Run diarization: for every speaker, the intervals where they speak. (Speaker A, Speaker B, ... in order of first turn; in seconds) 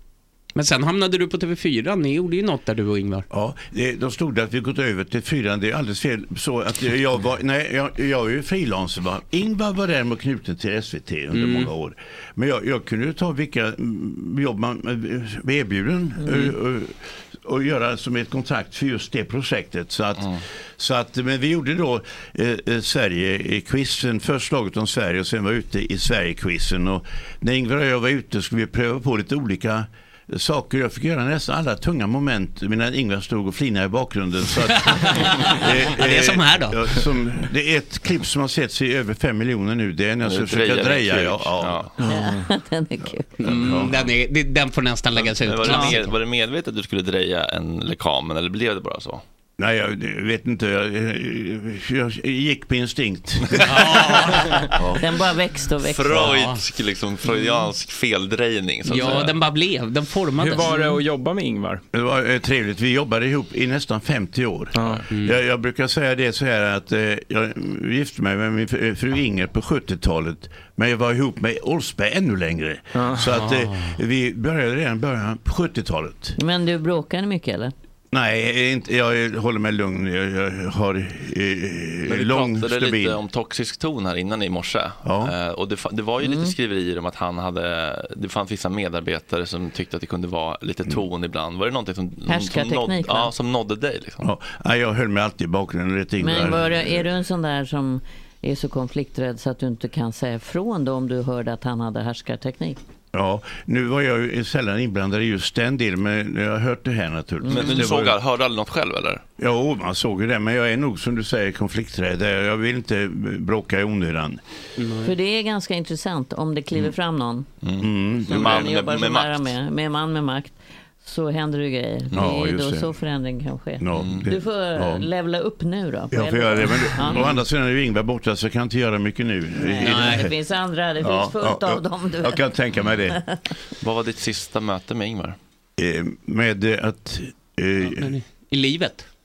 Speaker A: 0.6-3.2, 11.3-11.7, 34.8-37.1, 43.4-46.1, 53.6-54.7, 56.1-56.6, 58.9-61.0, 65.1-65.4, 73.3-74.0, 114.8-115.1, 129.8-130.3, 137.8-139.1
Speaker B: 3.3-42.2, 43.4-44.0, 49.6-53.9, 61.9-76.4, 78.1-83.2, 85.0-85.3, 94.2-97.0, 103.1-108.2, 109.4-114.4, 117.8-118.6, 122.1-123.0, 123.8-125.1, 126.1-130.3, 131.0-133.2, 135.8-138.2
Speaker C: 16.2-16.6, 42.0-43.4, 54.9-56.4, 57.3-57.6, 76.4-77.7, 86.2-86.5, 92.3-93.3, 96.2-102.8, 107.4-107.9, 115.0-117.5, 118.2-127.4, 129.6-132.5, 133.1-133.5
Speaker D: 40.2-42.0, 45.2-49.2, 54.8-55.0, 55.8-59.4, 82.1-94.2, 107.5-109.2, 117.6-119.5, 123.9-124.3, 133.8-135.4
Speaker E: 42.1-42.5, 60.4-61.8, 64.7-65.0, 72.9-73.3